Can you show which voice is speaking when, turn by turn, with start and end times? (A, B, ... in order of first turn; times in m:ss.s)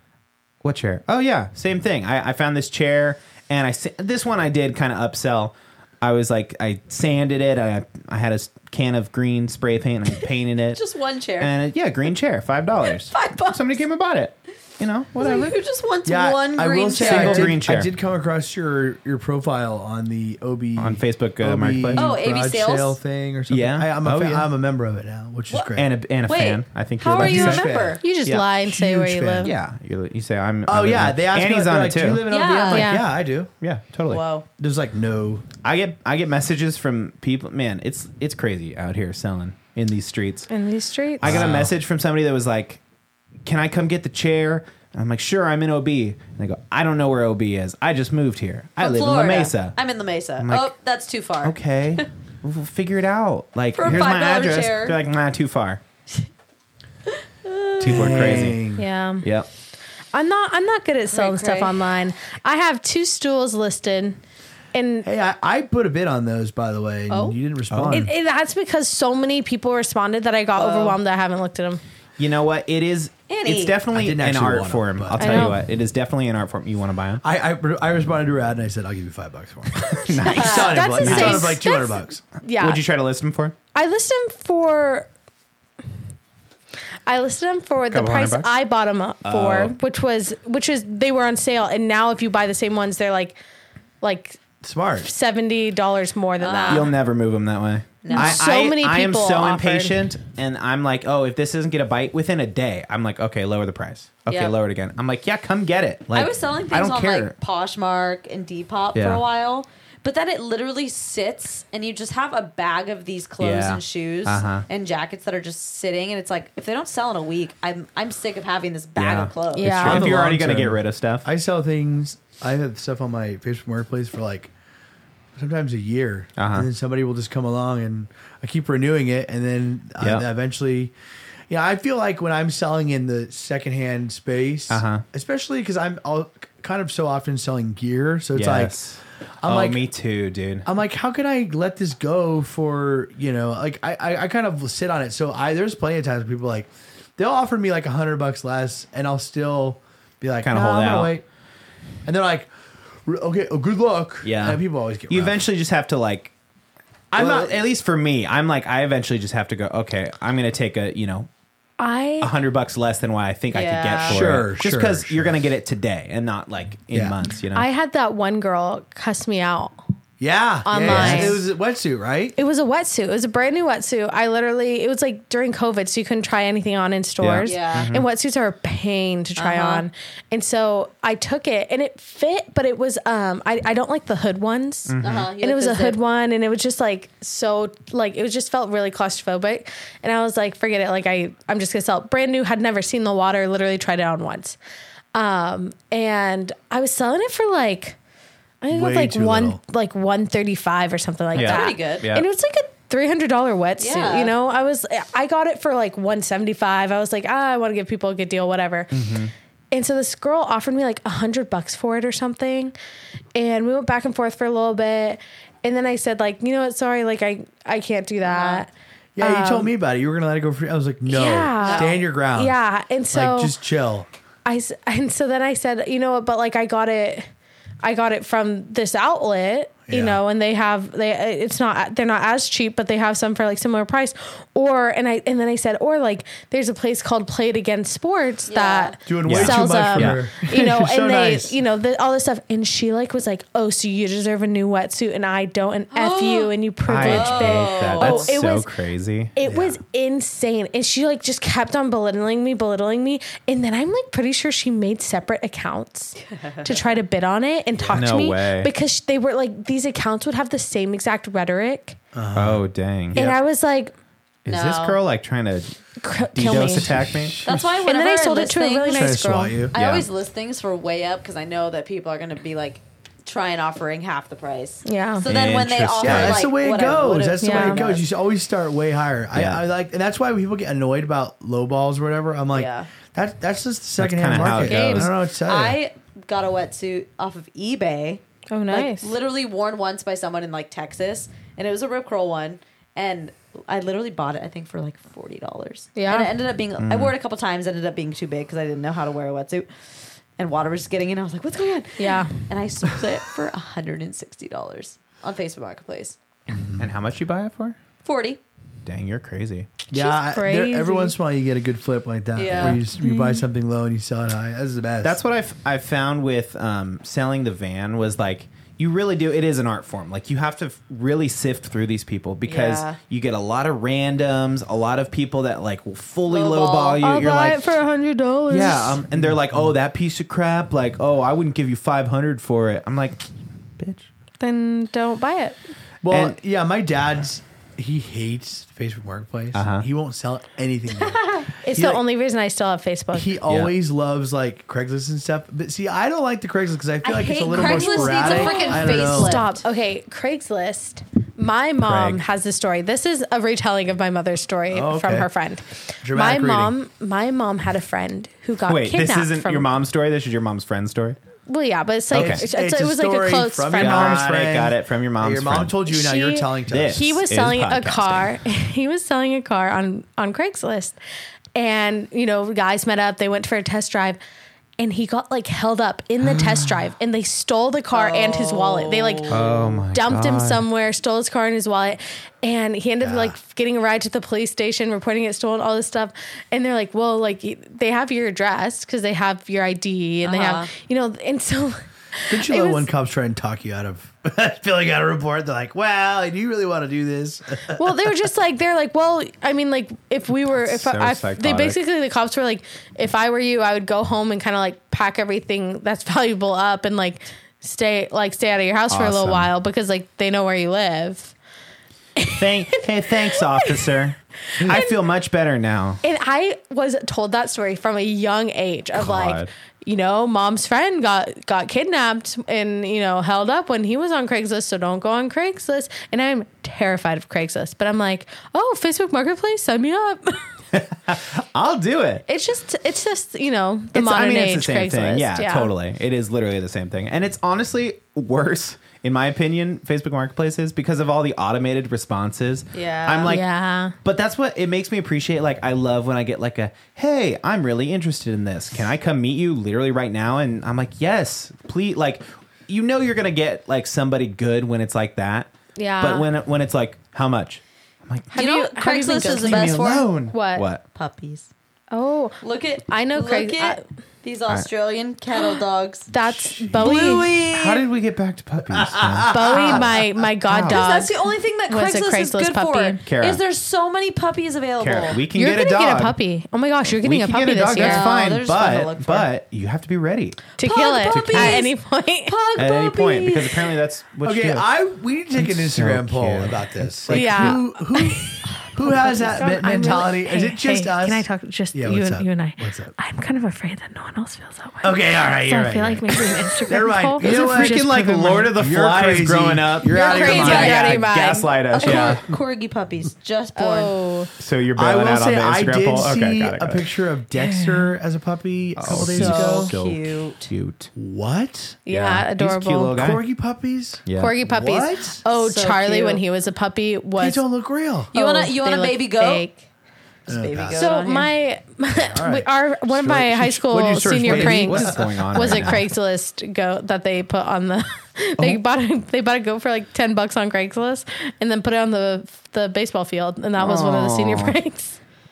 0:00.6-0:10.8 A
0:10.8-0:11.5 B
0:11.4-0:15.6 A
0:12.8-0:13.8 B
0:15.2-0:17.5 B
0:16.0-0:25.9 C
0:17.0-0:17.9 A
0:20.8-0:22.1 A
0:22.0-0:23.0 B
0:23.5-0:24.5 A
0:25.7-0:27.7 A
0:26.3-0:28.0 B
0:27.2-0:28.0 C
0:28.0-0:29.5 D
0:28.6-0:29.5 C
0:29.4-0:32.2 A
0:30.7-0:33.5 C
0:32.3-0:32.9 B
0:32.7-0:33.0 D
0:33.6-0:34.2 A
0:34.1-0:34.4 B
0:34.6-0:35.4 C
0:35.6-0:40.5 A
0:40.5-0:41.4 D
0:41.2-0:42.8 A
0:41.2-0:41.7 C
0:43.4-0:49.8 A
0:48.8-0:52.0 B
0:50.4-0:50.7 A
0:51.4-0:55.8 A
0:53.7-0:55.0 B
0:57.4-0:58.4 B
0:57.8-0:58.6 A
0:57.8-0:58.9 C
0:58.8-0:59.2 D
0:59.2-0:59.5 A
1:00.1-1:04.2 D
1:01.1-1:01.8 B
1:04.7-1:05.1 D
1:05.0-1:08.1 C
1:07.1-1:07.4 B
1:07.7-1:08.0 A
1:07.9-1:11.8 D
1:10.6-1:11.0 B
1:12.2-1:17.2 A
1:13.3-1:13.8 B
1:13.9-1:15.5 C
1:15.2-1:15.6 D
1:17.2-1:22.2 C
1:20.0-1:21.6 A
1:20.2-1:22.8 D
1:20.3-1:21.2 B
1:22.6-1:23.5 A
1:23.7-1:25.1 D
1:27.0-1:33.4 D
1:27.9-1:28.5 A
1:29.2-1:29.7 A
1:34.0-1:34.4 D
1:34.6-1:35.1 C
1:35.0-1:36.9 D
1:36.4-1:36.9 B
1:36.7-1:47.3 A
1:38.0-1:38.4 B
1:38.1-1:40.0 D
1:44.3-1:44.5 B
1:46.1-1:59.8 B
1:48.9-1:49.2 A
1:53.4-1:54.6 A
1:59.0-2:01.2 A
1:59.5-2:00.1 D
1:59.8-2:04.5 C
2:05.4-2:10.9 C
2:06.4-2:06.7 A
2:11.5-2:18.7 C
2:14.7-2:15.0 A
2:18.4-2:20.6 A
2:19.4-2:19.8 C
2:20.6-2:31.2 C
2:30.4-2:31.1 A
2:32.0-2:35.4 C
2:34.2-2:36.3 A
2:37.1-2:41.3 A
2:37.1-2:37.6 C
2:41.8-2:42.3 D
2:42.2-2:47.7 A
2:43.5-2:44.2 B
2:44.1-2:45.4 C
2:46.9-2:47.2 C
2:47.5-2:49.8 D
2:50.2-2:52.3 C
2:50.6-2:51.4 D
2:50.8-2:51.4 A
2:52.4-3:14.6 D
2:57.2-2:58.0 A
2:57.4-2:57.9 B
2:59.4-2:59.8 B
3:04.9-3:05.3 A
3:05.0-3:06.0 B
3:15.1-3:18.0 D
3:18.6-3:28.9 D
3:18.7-3:19.6 C
3:21.3-3:22.0 B
3:21.3-3:22.2 A
3:23.8-3:24.3 B
3:28.9-3:29.3 A
3:29.7-3:32.7 D
3:33.3-3:39.7 D
3:38.2-3:38.6 B
3:39.2-3:42.6 C
3:41.1-3:43.6 D
3:41.6-3:42.0 B
3:43.1-3:44.1 C
3:44.4-3:47.3 D
3:47.8-4:08.7 D
3:49.9-3:50.2 C
3:58.5-3:59.0 B
3:59.0-4:01.5 C
3:59.2-4:00.2 A
4:05.9-4:08.4 B
4:06.9-4:09.3 A
4:09.3-4:22.0 D
4:09.4-4:09.8 C
4:16.2-4:16.8 B
4:17.8-4:18.1 C
4:17.9-4:18.7 A
4:22.1-4:22.6 C
4:22.3-4:23.3 A
4:23.1-4:23.9 D
4:24.4-4:25.7 A
4:24.5-4:25.0 B
4:26.0-4:26.9 D
4:26.3-4:27.4 A
4:26.5-4:27.8 C
4:27.4-4:38.0 B
4:27.8-4:29.7 D
4:28.9-4:29.7 C
4:29.7-4:30.1 A
4:34.8-4:35.2 D
4:35.2-4:36.5 A
4:36.0-4:45.8 C
4:37.4-4:37.8 D
4:39.3-4:39.6 A
4:42.5-4:42.9 B
4:44.0-4:45.1 A
4:44.5-4:45.1 D
4:45.3-5:06.2 B
4:48.5-4:49.1 D
4:56.0-4:56.3 D
4:56.8-4:57.1 A
5:02.0-5:02.3 D
5:06.5-5:06.9 C
5:06.8-5:07.8 A
5:08.0-5:08.4 B
5:08.8-5:09.7 A
5:09.9-5:15.2 C
5:09.9-5:11.1 D
5:12.4-5:12.8 B
5:12.5-5:12.8 A
5:12.9-5:13.4 D
5:15.0-5:27.6 A
5:22.4-5:23.0 B
5:26.3-5:27.1 B
5:27.0-5:29.0 D
5:28.5-5:33.2 A
5:29.1-5:29.7 C
5:33.8-5:34.1 A
5:34.4-5:35.6 D
5:36.0-5:42.0 C
5:36.1-5:36.4 A
5:39.5-5:39.8 A
5:41.0-5:41.5 B
5:41.6-5:43.4 D
5:43.1-5:49.4 C
5:43.5-5:43.7 A
5:47.0-5:49.6 B
5:47.5-5:59.7 D
5:51.8-5:52.2 A
5:54.7-5:55.3 C
5:56.0-5:56.7 C
5:58.7-6:01.2 A
6:01.5-6:04.2 D
6:02.1-6:02.4 A
6:02.2-6:07.1 C
6:03.8-6:05.7 A
6:05.9-6:11.0 D
6:06.7-6:08.3 A
6:11.5-6:14.2 D
6:14.8-6:32.9 D
6:16.3-6:16.6 C
6:17.9-6:19.8 B
6:19.3-6:20.6 A
6:23.0-6:23.3 C
6:30.2-6:30.7 B
6:32.3-6:38.0 C
6:37.7-6:51.3 D
6:40.5-6:41.8 A
6:48.9-6:49.5 A
6:52.2-6:52.4 D
6:52.3-6:56.0 A
6:53.4-6:53.8 D
6:54.6-6:54.9 D
6:56.0-7:10.4 D
6:59.0-6:59.5 A
7:10.7-7:12.2 A
7:12.3-7:15.7 D
7:13.9-7:23.4 A
7:22.7-7:23.4 B
7:23.2-7:23.9 D
7:24.0-7:35.5 A
7:35.8-7:36.3 D
7:36.0-7:38.4 A
7:38.3-7:40.7 D
7:38.3-7:40.1 B
7:39.1-7:40.8 A
7:40.9-7:41.5 B
7:41.9-7:43.8 D
7:42.4-7:46.1 B
7:46.1-7:47.3 D
7:46.7-7:47.8 B
7:46.9-7:49.8 A
7:48.7-7:50.0 C
7:49.3-7:51.1 D
7:50.5-7:50.8 A
7:50.7-7:55.2 B
7:51.7-7:53.0 D
7:53.0-7:53.4 A
7:54.8-7:56.2 A
7:55.3-7:58.1 D
7:56.9-8:00.5 A
7:57.8-7:59.3 B
8:00.6-8:02.3 D
8:00.6-8:01.7 B
8:01.1-8:01.7 A
8:02.2-8:03.7 B
8:02.6-8:04.7 A
8:04.2-8:12.9 C
8:05.3-8:07.6 A
8:07.1-8:18.3 D
8:14.8-8:20.9 C
8:17.2-8:22.2 A
8:19.9-8:21.1 B
8:19.9-8:22.2 D
8:21.7-8:23.9 B
8:23.6-8:24.3 D
8:24.4-8:26.9 A
8:24.8-8:29.7 C
8:27.4-8:27.9 D
8:28.8-8:30.9 A
8:29.0-8:30.5 B
8:30.9-8:31.8 C
8:31.9-8:33.0 D
8:31.9-8:33.2 A
8:32.9-8:35.2 C
8:34.0-8:34.4 A
8:34.2-8:37.4 D
8:35.3-8:36.2 B
8:37.2-8:38.1 C
8:38.1-8:39.6 D
8:38.1-8:39.4 B
8:40.3-8:41.3 B
8:40.3-8:40.9 C
8:40.7-8:55.0 D
8:41.9-8:45.8 C
8:44.0-8:45.8 A
8:53.6-8:54.6 A